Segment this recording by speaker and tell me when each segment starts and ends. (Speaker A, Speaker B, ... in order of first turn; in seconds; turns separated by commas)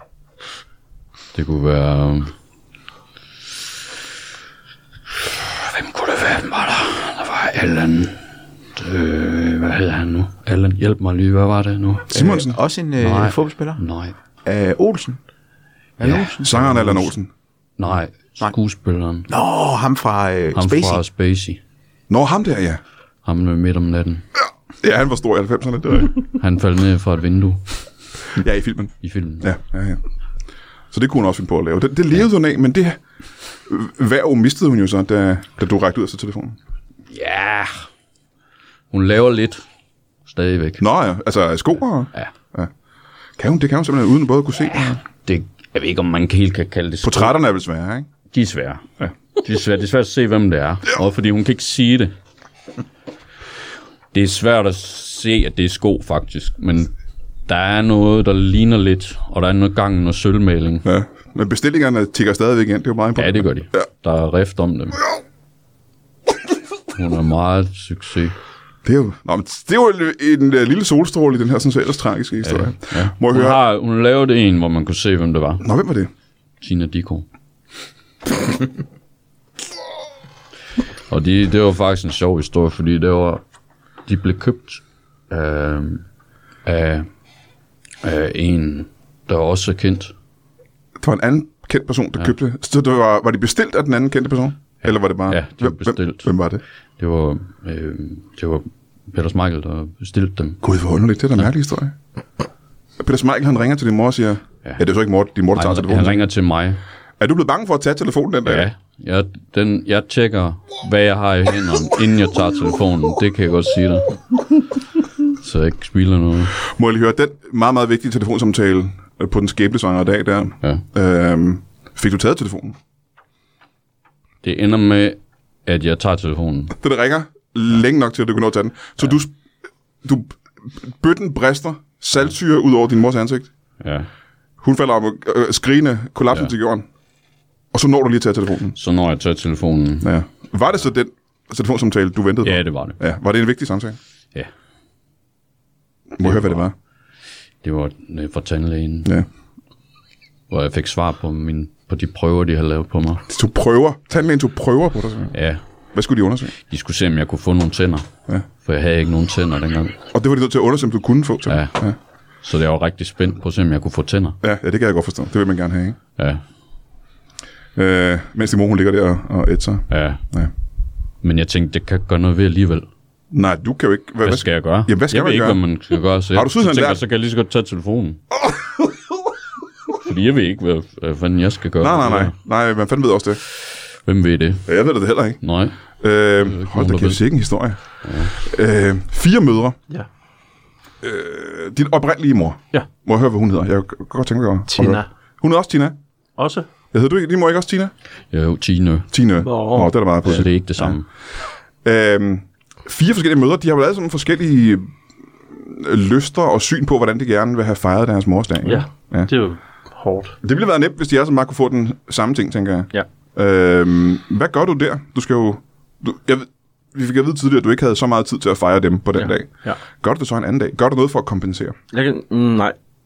Speaker A: 1.3-2.3, Speaker A: 5.2-12.1, Speaker B: 12.1-12.6, Speaker C: 12.1-13.8, Speaker A: 13.0-14.1, Speaker C: 14.4-15.2, Speaker C: 16.0-16.3, Speaker A: 16.0-17.1, Speaker B: 16.4-17.3, Speaker A: 17.8-19.3, Speaker C: 19.3-21.0, Speaker A: 20.6-21.6, Speaker B: 22.1-22.8, Speaker A: 23.2-24.2, Speaker B: 24.8-26.1, Speaker A: 26.3-27.6, Speaker B: 28.4-30.0, Speaker A: 29.0-29.4, Speaker B: 30.9-33.0, Speaker B: 33.7-36.6, Speaker A: 37.1-37.8, Speaker A: 38.9-39.6, Speaker A: 40.3-40.8, Speaker B: 40.8-42.7, Speaker B: 43.4-45.0, Speaker A: 45.1-47.4, Speaker B: 47.0-48.1, Speaker A: 48.3-48.9, Speaker A: 49.4-52.1, Speaker A: 54.1-56.9, Speaker A: 57.5-60.9, Speaker B: 60.9-63.9, Speaker A: 63.1-65.0, Speaker A: 66.9-68.4, Speaker B: 68.8-73.6, Speaker A: 72.4-75.6, Speaker B: 75.6-76.1, Speaker A: 76.6-77.2, Speaker A: 81.1-83.4, Speaker A: 84.1-86.0, Speaker A: 86.6-87.1, Speaker A: 88.0-90.1, Speaker B: 91.0-96.6, Speaker A: 95.3-96.3, Speaker A: 97.0-100.6, Speaker B: 100.6-101.9, Speaker B: 103.0-106.2, Speaker A: 105.5-106.8, Speaker B: 107.2-108.7, Speaker A: 108.5-114.2, Speaker A: 115.3-116.6, Speaker B: 116.6-122.8, Speaker A: 124.4-126.8, Speaker B: 126.8-129.3, Speaker B: 130.0-133.5, Speaker A: 133.8-134.1, Speaker B: 134.6-136.9, Speaker B: 137.7-138.8, Speaker A: 138.8-140.1, Speaker B: 140.0-144.0, Speaker A: 142.4-143.0, Speaker B: 146.2-146.7, Speaker A: 146.2-146.6, Speaker A: 147.6-149.1, Speaker A: 150.5-153.2, Speaker B: 153.3-155.3, Speaker A: 155.3-155.6, Speaker B: 155.9-156.5, Speaker A: 156.7-160.0, Speaker B: 160.1-161.9, Speaker A: 161.5-161.7, Speaker A: 162.4-164.4, Speaker B: 164.4-166.0, Speaker B: 167.8-170.5, Speaker A: 169.9-170.2, Speaker A: 171.2-172.9, Speaker B: 173.3-175.6, Speaker A: 174.2-178.2, Speaker B: 176.3-177.0, Speaker A: 179.9-182.3, Speaker B: 181.8-183.4, Speaker A: 184.1-184.7, Speaker B: 184.7-185.4, Speaker A: 185.4-185.8, Speaker B: 186.0-189.8, Speaker A: 186.5-187.2, Speaker A: 188.0-188.3, Speaker B: 191.0-196.0, Speaker D: 194.7-195.1, Speaker D: 196.4-196.7, Speaker B: 196.9-197.9, Speaker A: 198.3-199.1, Speaker B: 199.1-201.0, Speaker D: 199.4-199.9, Speaker A: 200.2-201.1, Speaker B: 201.8-204.9, Speaker B: 205.5-209.3, Speaker D: 208.7-210.4, Speaker B: 210.4-221.8, Speaker D: 219.2-219.8, Speaker D: 221.9-222.8